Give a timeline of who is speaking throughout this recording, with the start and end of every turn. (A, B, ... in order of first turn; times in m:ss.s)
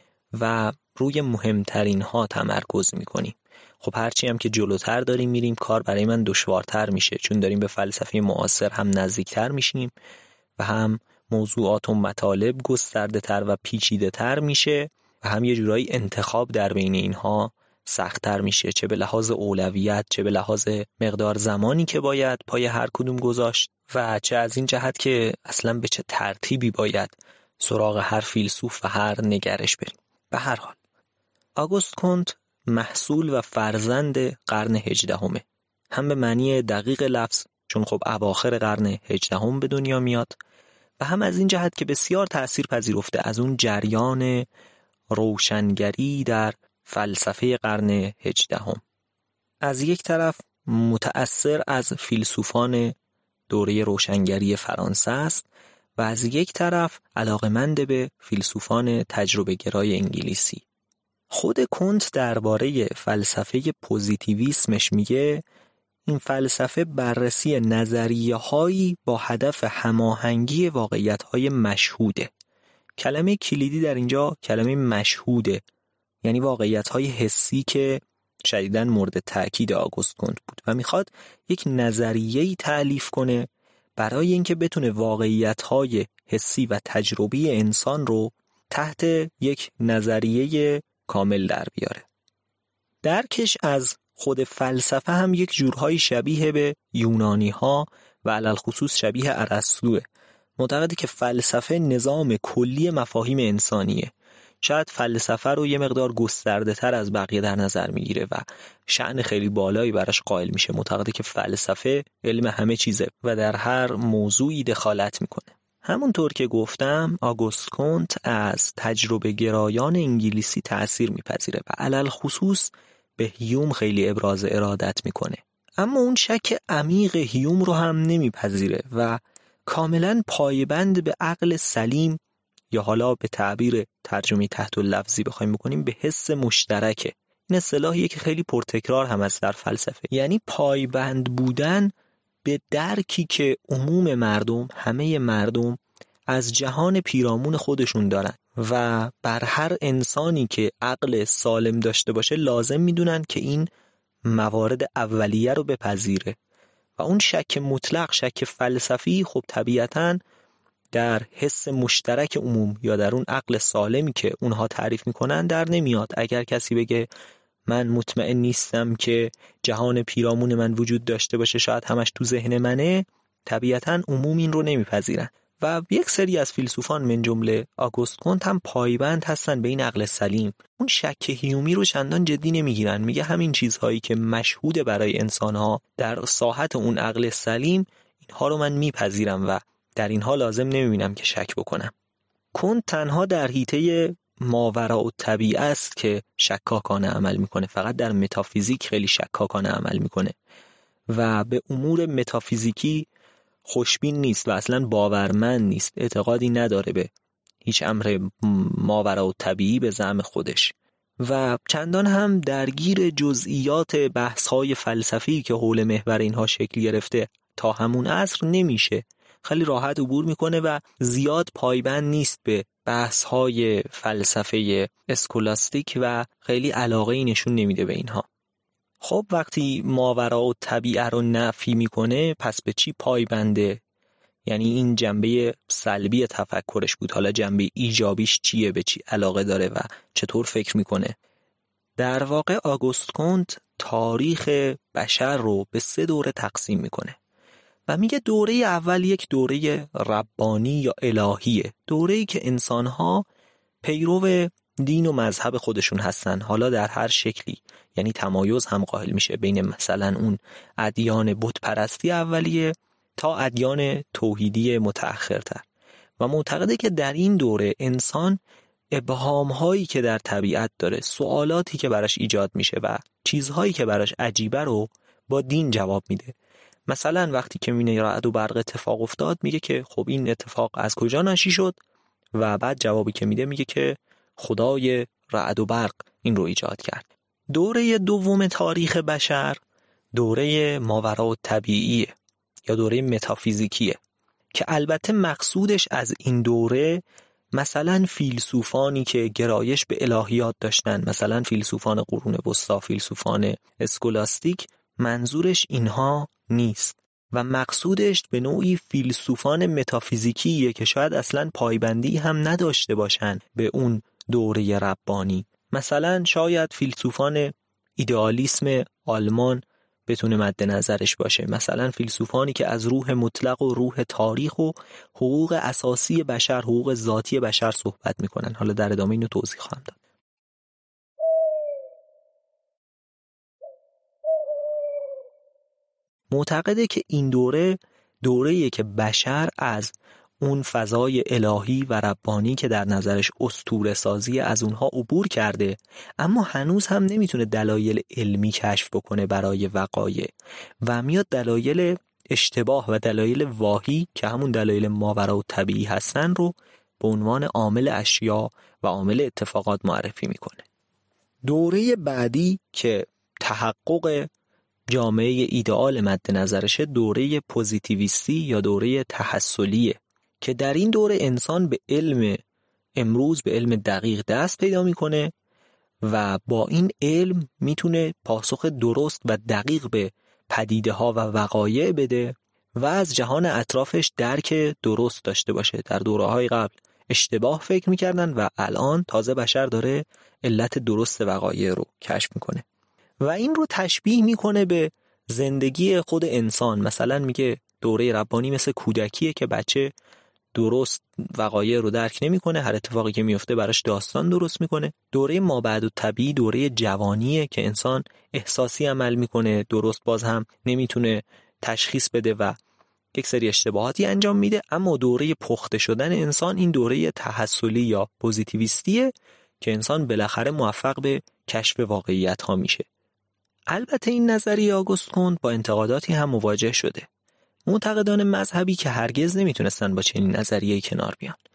0:00.3-0:09.9 A
0:10.6-0:30.8 A
0:31.6-0:40.4 A
0:41.0-0:44.5 A
0:45.1-0:48.8 A
0:49.6-0:52.9 A
0:53.5-0:55.4 A
0:56.0-1:00.6 A
1:01.3-1:05.4 A
1:06.1-1:12.3 A
1:13.0-1:15.6 A
1:16.2-1:32.0 A
1:33.0-1:40.0 A
1:40.6-2:12.2 A
2:12.7-2:21.9 A
2:22.4-2:25.8 A
2:26.3-2:33.7 A
2:34.2-2:36.4 A
2:37.0-2:40.2 A
2:40.9-2:47.1 A
2:47.7-3:11.9 A
3:12.5-3:20.3 A
3:21.1-3:23.1 A
3:23.6-3:27.1 A
3:27.6-3:48.2 A
3:49.0-3:53.8 A
3:54.4-4:01.2 A
4:02.0-4:07.2 A
4:07.9-4:13.2 A
4:13.8-4:25.6 A
4:26.2-4:28.4 A
4:28.9-4:36.3 A
4:36.9-4:41.8 A
4:42.3-4:49.6 A
4:50.1-4:52.1 A
4:52.7-4:54.0 A
4:54.5-4:57.0 A
4:57.5-5:30.0 A
5:36.3-5:50.3 A
5:50.8-6:00.6 A
6:01.4-6:04.3 A
6:04.9-6:12.4 A
6:13.0-6:15.3 A
6:16.0-6:32.6 A
6:33.2-6:39.9 A
6:40.5-6:52.6 A
6:53.1-7:02.8 A
7:03.7-7:07.1 A
7:07.7-7:11.4 A